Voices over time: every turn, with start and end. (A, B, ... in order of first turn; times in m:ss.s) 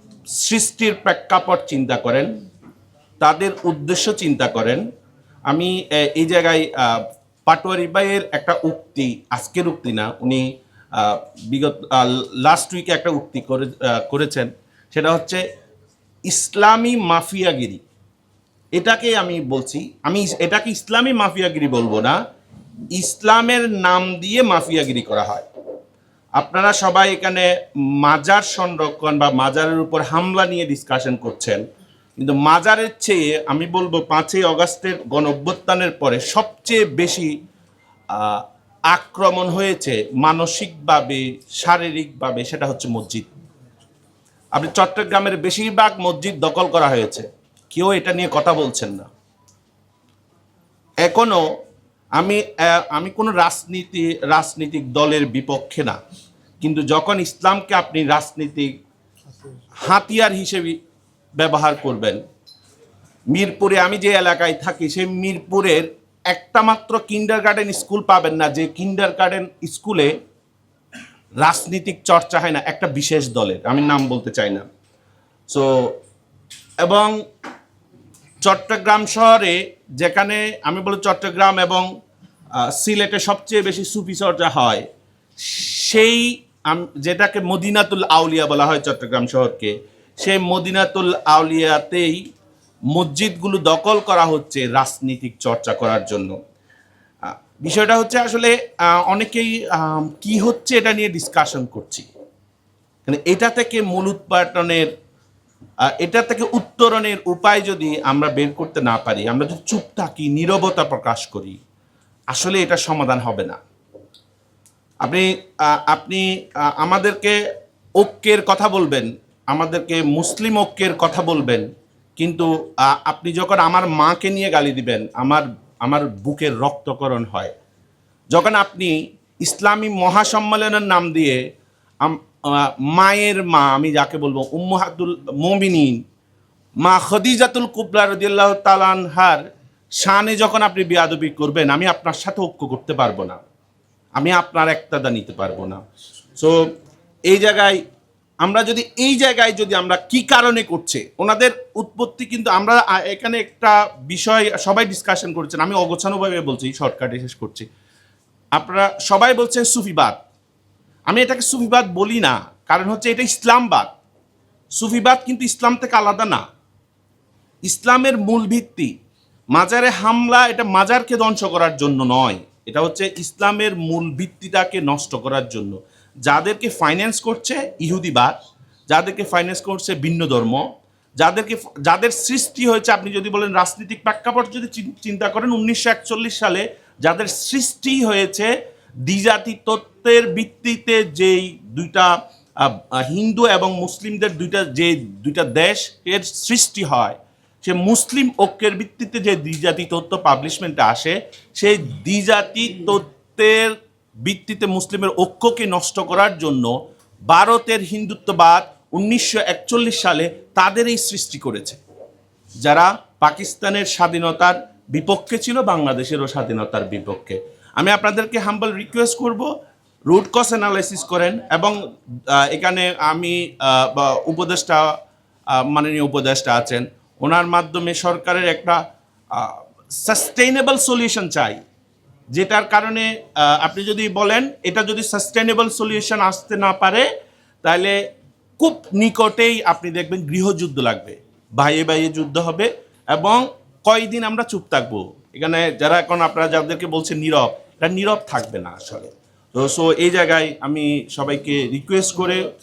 0:00.4-0:02.3 A
0:03.2-0:04.8 A
0:05.5-0:10.4 A
0:11.0-0:15.4 A
0:16.3-0:17.8 A
0:18.8-0:22.2 A
0:22.9-0:25.4 A
0:26.4-0:31.6 A
0:32.2-0:37.3 A
0:38.1-0:43.3 A
0:44.6-0:49.1 A
0:51.0-0:51.4 A
0:52.2-0:56.0 A
0:56.6-0:58.7 A
0:59.8-1:00.8 A
1:01.4-1:02.2 A
1:03.3-1:10.1 A
1:11.4-1:14.7 A
1:15.5-1:16.0 A
1:16.8-1:17.2 A
1:18.4-1:21.9 A
1:22.6-1:24.9 A
1:25.4-1:32.2 A
1:32.9-1:36.3 A
1:37.3-1:42.1 A
1:43.1-1:44.9 A
1:46.0-1:51.6 A
1:52.3-1:53.6 A
1:55.0-1:57.4 A
1:58.0-2:01.7 A
2:02.2-2:07.5 A
2:08.3-2:11.4 A
2:12.0-2:16.0 A
2:16.8-2:19.4 A
2:20.0-2:23.4 A
2:24.2-2:25.8 A
2:26.4-2:26.6 A
2:27.3-2:27.8 A
2:28.4-2:37.7 A
2:38.6-2:40.2 A
2:41.1-2:43.9 A
2:44.8-2:46.4 A
2:47.7-2:48.9 A
2:49.6-2:58.4 A
2:58.9-3:00.6 A
3:01.2-3:08.5 A
3:09.0-3:26.7 A
3:27.3-3:31.8 A
3:32.6-3:39.5 A
3:40.1-3:41.8 A
3:42.3-3:44.9 A
3:45.5-3:48.8 A
3:49.3-3:51.6 A
3:52.3-3:57.1 A
3:57.6-3:58.0 A
3:58.6-4:12.4 A